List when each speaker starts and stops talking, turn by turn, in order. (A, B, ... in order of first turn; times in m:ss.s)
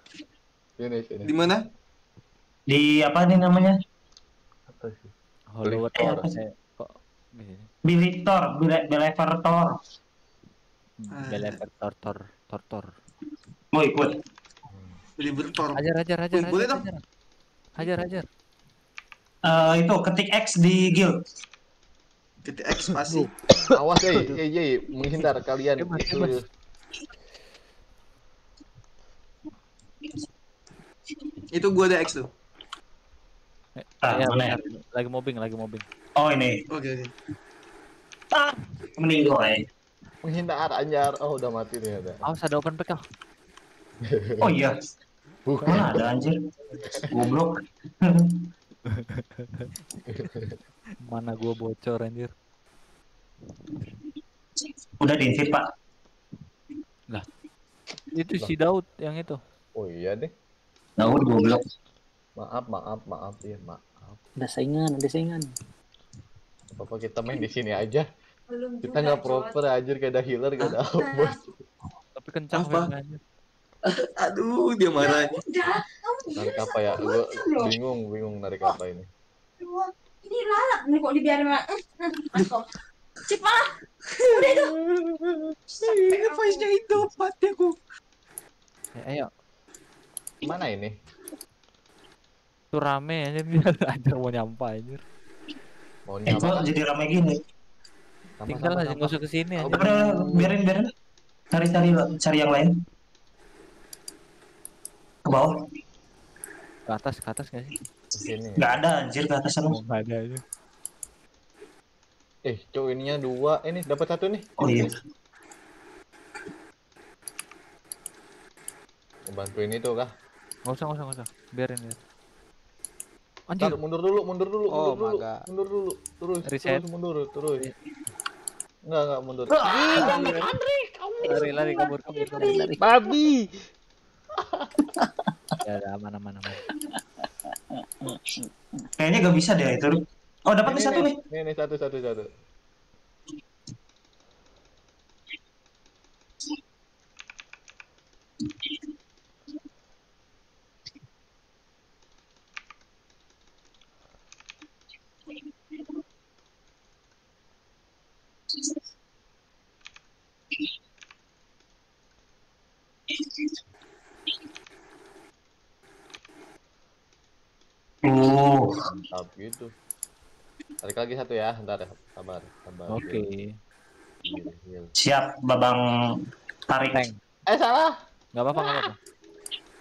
0:00.8-0:01.3 A
0:01.2-0:01.6 B
0:02.7-0:03.8 C
0:04.7-0:05.1 A
0:05.5-0:07.7 D
0:05.6-0:06.0 A
0:06.0-0:06.4 C
0:07.8-0:09.8 C
0:11.0-0:12.9 D
0:11.1-0:11.6 B
0:13.7-0:14.2 C
0:14.7-0:15.0 A
0:15.2-0:16.8 B
0:15.7-0:17.0 D
0:17.8-0:18.3 D
0:19.4-0:21.1 C
0:22.4-0:23.3 B
0:23.7-0:26.4 A
0:25.1-0:26.4 D
0:31.5-0:32.3 B
0:33.8-0:35.8 D
0:34.0-0:34.6 C
0:36.2-0:36.6 C
0:36.7-0:37.1 B
0:38.3-0:39.6 C
0:40.2-0:42.2 A
0:42.2-0:43.0 D
0:44.0-0:44.5 A
0:44.4-0:44.7 C
0:45.5-0:46.1 A
0:45.7-0:46.4 C
0:46.8-0:47.1 A
0:47.1-0:48.5 C
0:48.9-0:49.7 D
0:50.0-0:50.6 A
0:51.0-0:52.3 D
0:55.0-0:55.7 C
0:58.1-0:59.4 D
0:59.8-1:00.3 A
1:01.0-1:01.6 C
1:02.4-1:04.2 A
1:04.4-1:05.5 E
1:06.7-1:08.0 A
1:08.5-1:09.6 F
1:08.8-1:11.4 A
1:10.8-1:11.4 F
1:12.1-1:13.2 D
1:12.5-1:12.9 B
1:13.9-1:15.3 B
1:15.0-1:17.8 F
1:16.3-1:19.1 A
1:19.6-1:22.7 F
1:23.3-1:23.8 F
1:24.1-1:27.8 B
1:24.3-1:24.7 F
1:25.8-1:26.7 F
1:29.0-1:29.3 D
1:30.4-1:30.9 A
1:32.7-1:35.0 D
1:36.1-1:36.7 A
1:36.2-1:37.4 C
1:38.4-1:40.5 A
1:38.5-1:39.9 D
1:39.7-1:40.9 C
1:41.5-1:42.8 C
1:45.2-1:45.5 C
1:46.9-1:47.7 D
1:48.1-1:48.8 A
1:48.6-1:49.8 C
1:49.7-1:50.4 D
1:52.4-1:54.9 A
1:54.6-1:54.9 C
1:59.3-2:00.1 A
2:00.6-2:02.0 D
2:03.5-2:03.8 D
2:03.6-2:07.7 A
2:04.7-2:05.4 G
2:06.4-2:06.8 D
2:08.9-2:12.5 A
2:09.7-2:10.3 G
2:09.9-2:10.3 E
2:09.9-2:10.5 D
2:11.2-2:12.6 D
2:12.3-2:12.8 E
2:12.8-2:13.7 G
2:14.4-2:14.7 A
2:15.6-2:16.6 D
2:19.0-2:21.1 C
2:20.6-2:22.2 A
2:43.1-2:43.4 C
2:48.0-2:48.7 C
2:48.8-2:49.7 A
2:50.8-2:53.2 A
2:52.9-2:53.6 D
2:54.2-2:54.9 A
2:55.0-2:56.2 C
2:56.7-2:57.1 C
2:57.5-2:57.9 A
2:58.3-2:59.0 D
2:58.5-2:58.9 A